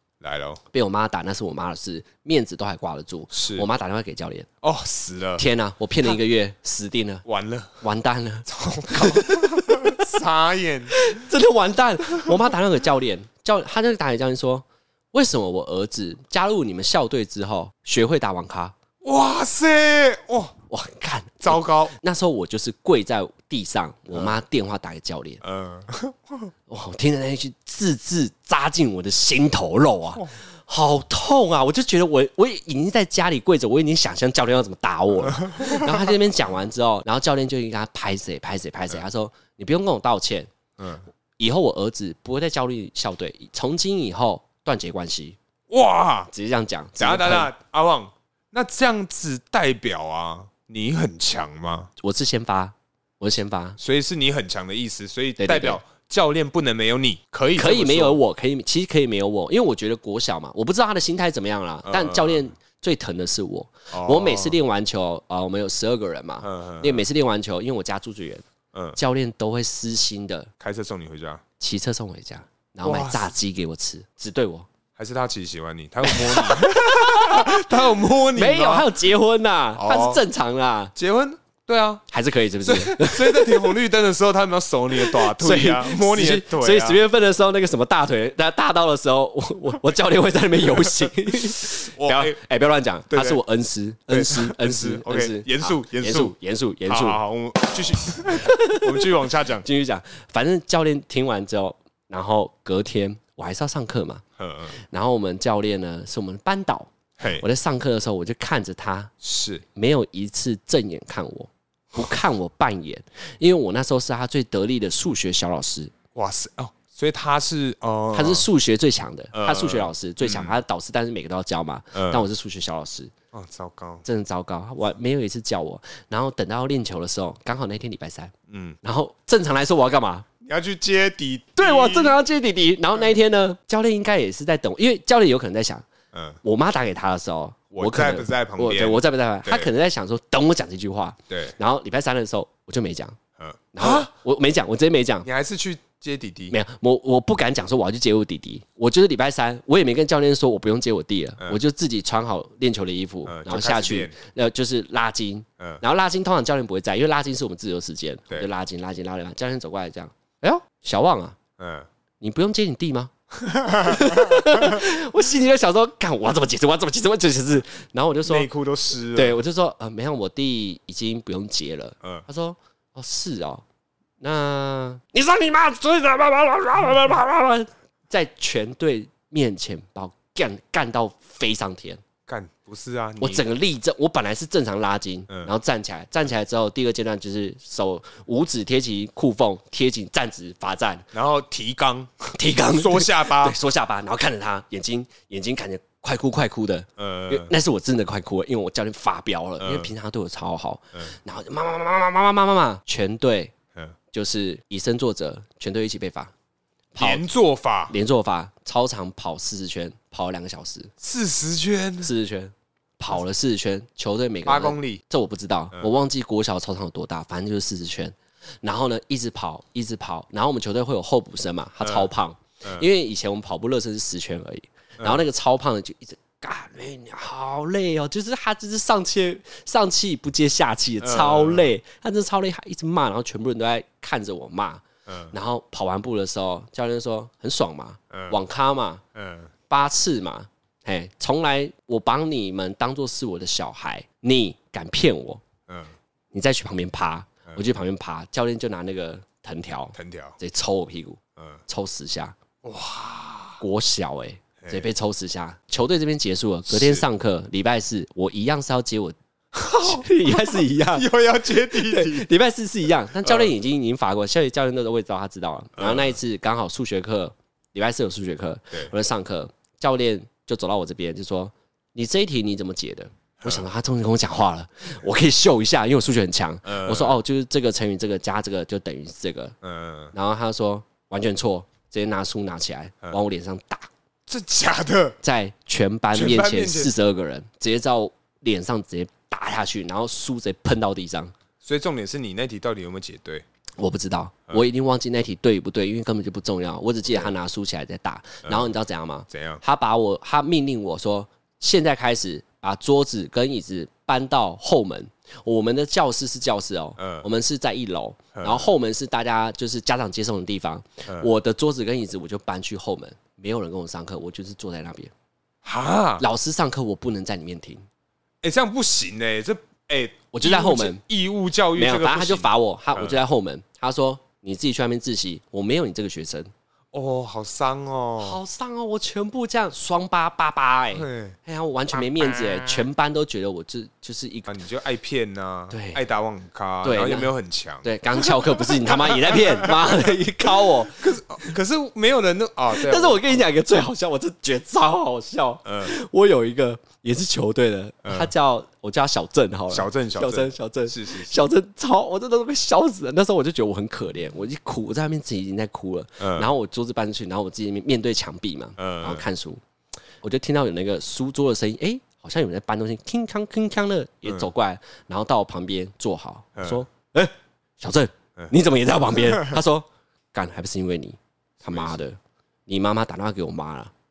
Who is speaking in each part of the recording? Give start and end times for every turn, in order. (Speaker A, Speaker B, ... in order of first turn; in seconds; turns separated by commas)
Speaker A: 0.2-0.6, Speaker B: 0.7-4.5, Speaker A: 3.3-3.6, Speaker A: 4.6-5.4, Speaker B: 5.4-7.2, Speaker A: 7.2-7.8, Speaker B: 7.8-10.2, Speaker A: 8.5-11.2, Speaker B: 10.9-18.8, Speaker A: 19.0-20.5, Speaker B: 20.7-25.4, Speaker A: 21.4-21.9, Speaker A: 25.4-26.5, Speaker B: 26.7-40.5, Speaker A: 35.2-36.1, Speaker A: 40.8-41.0, Speaker B: 41.4-45.4, Speaker A: 45.7-46.3, Speaker B: 46.3-47.5, Speaker A: 47.0-51.9, Speaker B: 52.0-53.8, Speaker A: 53.8-58.2, Speaker B: 55.4-55.8, Speaker B: 57.5-68.4, Speaker A: 61.8-62.5, Speaker A: 63.9-64.6, Speaker A: 66.4-67.0, Speaker B: 68.9-70.5, Speaker A: 70.6-71.4, Speaker B: 71.6-74.7, Speaker A: 72.8-73.3, Speaker A: 75.0-79.0, Speaker B: 76.0-77.7, Speaker B: 78.3-80.9, Speaker A: 79.8-80.2, Speaker A: 80.9-82.0, Speaker B: 82.1-83.8, Speaker A: 82.6-87.0, Speaker B: 84.9-97.2, Speaker A: 91.6-92.4, Speaker A: 93.1-93.4, Speaker A: 94.1-96.3, Speaker A: 96.8-99.7, Speaker B: 98.3-104.2, Speaker A: 104.4-104.8, Speaker B: 104.7-109.1, Speaker A: 107.2-107.4, Speaker A: 109.2-109.6, Speaker B: 109.7-115.9, Speaker A: 116.1-118.5, Speaker B: 118.1-123.1, Speaker A: 119.3-120.5, Speaker A: 121.9-122.2, Speaker A: 123.3-124.0, Speaker B: 124.0-130.3, Speaker A: 128.5-128.8, Speaker A: 130.4-132.2, Speaker B: 131.6-135.9, Speaker A: 136.1-136.4, Speaker B: 136.4-143.2, Speaker A: 137.7-139.7, Speaker A: 141.3-141.6, Speaker A: 143.4-144.1, Speaker B: 143.7-145.3, Speaker A: 145.2-146.6, Speaker B: 146.5-161.4, Speaker A: 153.2-154.1, Speaker A: 161.6-161.9, Speaker B: 162.2-163.1, Speaker A: 163.3-164.8, Speaker B: 163.8-168.5, Speaker A: 168.2-169.4, Speaker B: 169.1-173.6, Speaker B: 174.2-182.0, Speaker A: 182.3-183.4, Speaker B: 183.2-191.1, Speaker A: 191.1-193.6, Speaker B: 192.3-203.5, Speaker A: 197.0-197.5, Speaker A: 199.6-199.9, Speaker B: 204.1-206.3, Speaker B: 206.9-207.2, Speaker A: 207.0-207.9, Speaker B: 207.9-210.9, Speaker A: 211.0-212.1, Speaker B: 212.0-239.0, Speaker A: 214.4-215.0, Speaker A: 221.8-222.1, Speaker A: 225.0-225.2, Speaker A: 231.0-231.7, Speaker A: 235.1-235.3, Speaker A: 238.1-238.4, Speaker A: 239.1-239.5, Speaker B: 239.7-245.4, Speaker A: 245.7-245.9, Speaker B: 246.3-252.4, Speaker A: 249.9-250.4, Speaker A: 251.4-251.6, Speaker A: 252.6-253.6, Speaker B: 253.6-259.1, Speaker A: 254.6-254.9, Speaker A: 256.7-257.0, Speaker A: 259.5-262.3, Speaker B: 259.7-261.1, Speaker B: 261.6-279.6, Speaker A: 263.2-263.5, Speaker A: 265.8-266.1, Speaker A: 276.6-277.2, Speaker A: 279.6-280.1, Speaker B: 280.1-283.9, Speaker A: 284.3-285.2, Speaker B: 285.2-291.3, Speaker A: 286.1-286.9, Speaker A: 291.6-293.4, Speaker B: 293.8-315.1, Speaker A: 299.3-299.6, Speaker A: 307.0-307.2, Speaker A: 308.3-308.7, Speaker A: 315.6-316.2, Speaker B: 316.2-317.8, Speaker A: 318.4-323.2, Speaker B: 320.3-321.0, Speaker B: 321.8-326.5, Speaker A: 326.9-328.4, Speaker B: 328.2-334.5, Speaker A: 330.9-331.4, Speaker A: 331.9-332.9, Speaker A: 334.5-340.1, Speaker B: 335.7-336.0, Speaker B: 336.8-337.3, Speaker B: 337.8-341.2, Speaker A: 341.0-343.5, Speaker B: 342.7-359.6, Speaker A: 345.6-345.9, Speaker A: 348.0-348.3, Speaker A: 349.7-351.4, Speaker A: 356.2-356.5, Speaker A: 358.8-359.2, Speaker B: 360.2-373.9, Speaker A: 366.6-366.8, Speaker A: 369.1-369.6, Speaker A: 371.6-372.0